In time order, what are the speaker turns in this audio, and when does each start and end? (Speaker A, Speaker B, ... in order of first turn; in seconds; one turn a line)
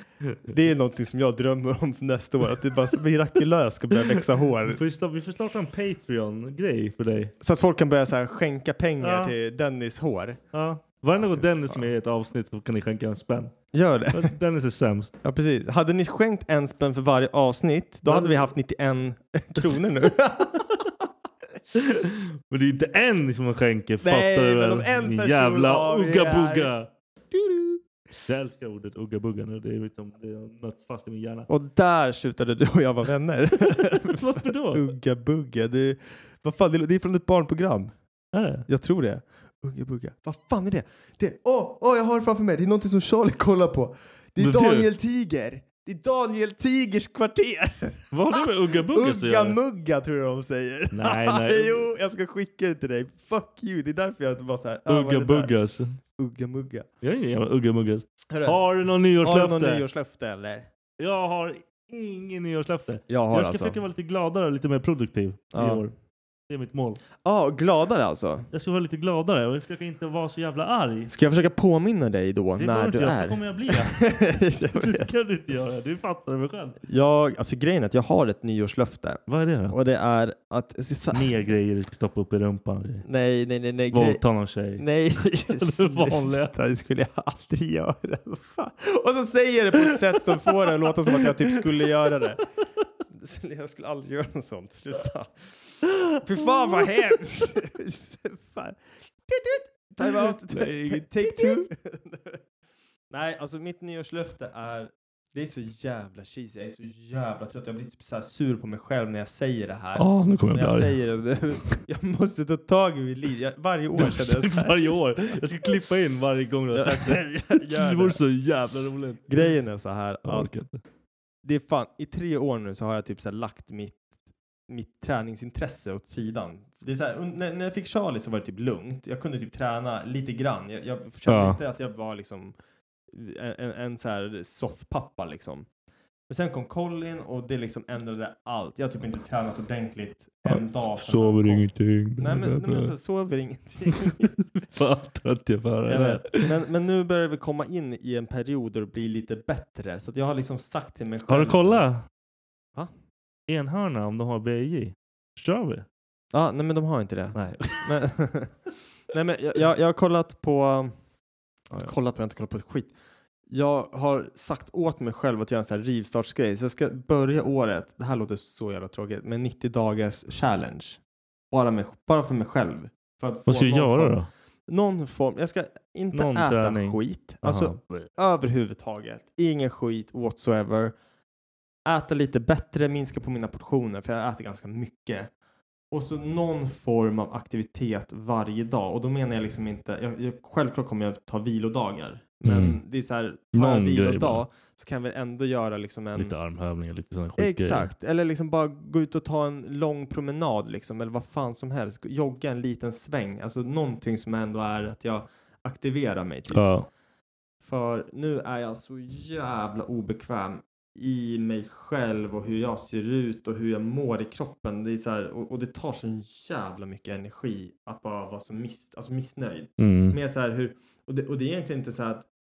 Speaker A: 0.5-4.8
Speaker B: 4.7-7.3
Speaker A: 7.4-10.4
Speaker B: 9.0-9.3
Speaker B: 10.5-15.1
Speaker A: 11.2-11.9
Speaker A: 13.7-14.3
Speaker A: 15.2-20.8
Speaker B: 18.1-18.4
Speaker B: 21.7-26.9
Speaker A: 24.0-26.7
Speaker A: 27.3-27.8
Speaker B: 28.3-31.5
Speaker A: 31.5-37.9
Speaker B: 33.9-34.8
Speaker B: 38.3-38.7
Speaker A: 38.7-55.5
Speaker B: 44.4-44.9
Speaker B: 48.1-49.6
Speaker B: 50.9-51.9
Speaker B: 54.9-56.0
Speaker A: 56.2-56.9
Speaker B: 57.0-59.8
Speaker A: 58.3-58.6
Speaker A: 59.2-60.7
Speaker B: 61.0-65.9
Speaker A: 63.1-63.8
Speaker A: 65.5-65.8
Speaker B: 66.5-67.0
Speaker A: 67.2-68.5
Speaker B: 68.5-71.1
Speaker A: 71.1-75.1
Speaker B: 72.6-74.2
Speaker B: 74.8-76.8
Speaker A: 76.9-81.3
Speaker B: 79.3-79.8
Speaker B: 81.1-83.0
Speaker A: 83.0-84.2
Speaker B: 83.9-86.5
Speaker A: 84.8-92.4
Speaker A: 93.1-95.3
Speaker A: 96.2-102.4
Speaker B: 96.4-96.9
Speaker B: 100.0-101.7
Speaker A: 103.1-115.4
Speaker B: 110.0-111.0
Speaker B: 114.0-119.4
Speaker A: 116.7-118.2
Speaker A: 119.3-120.5
Speaker B: 120.2-120.8
Speaker A: 121.4-124.0
Speaker A: 124.7-132.5
Speaker B: 131.3-131.6
Speaker A: 133.1-135.7
Speaker A: 136.3-141.7
Speaker B: 140.4-142.9
Speaker A: 142.2-144.3
Speaker B: 143.9-146.4
Speaker A: 145.9-151.8
Speaker B: 151.3-152.0
Speaker B: 153.5-155.8
Speaker A: 156.3-158.5
Speaker B: 157.3-157.9
Speaker A: 159.1-160.9
Speaker A: 161.7-162.9
Speaker A: 163.5-171.0
Speaker A: 171.5-174.2
Speaker B: 173.5-174.3
Speaker A: 174.7-180.9
Speaker B: 176.1-178.1
Speaker A: 181.8-185.3
Speaker A: 185.9-196.3
Speaker B: 192.4-192.8
Speaker B: 193.5-194.4
Speaker B: 196.2-197.9
Speaker A: 197.4-206.6
Speaker B: 206.5-206.9
Speaker A: 207.6-222.2
Speaker B: 219.8-220.2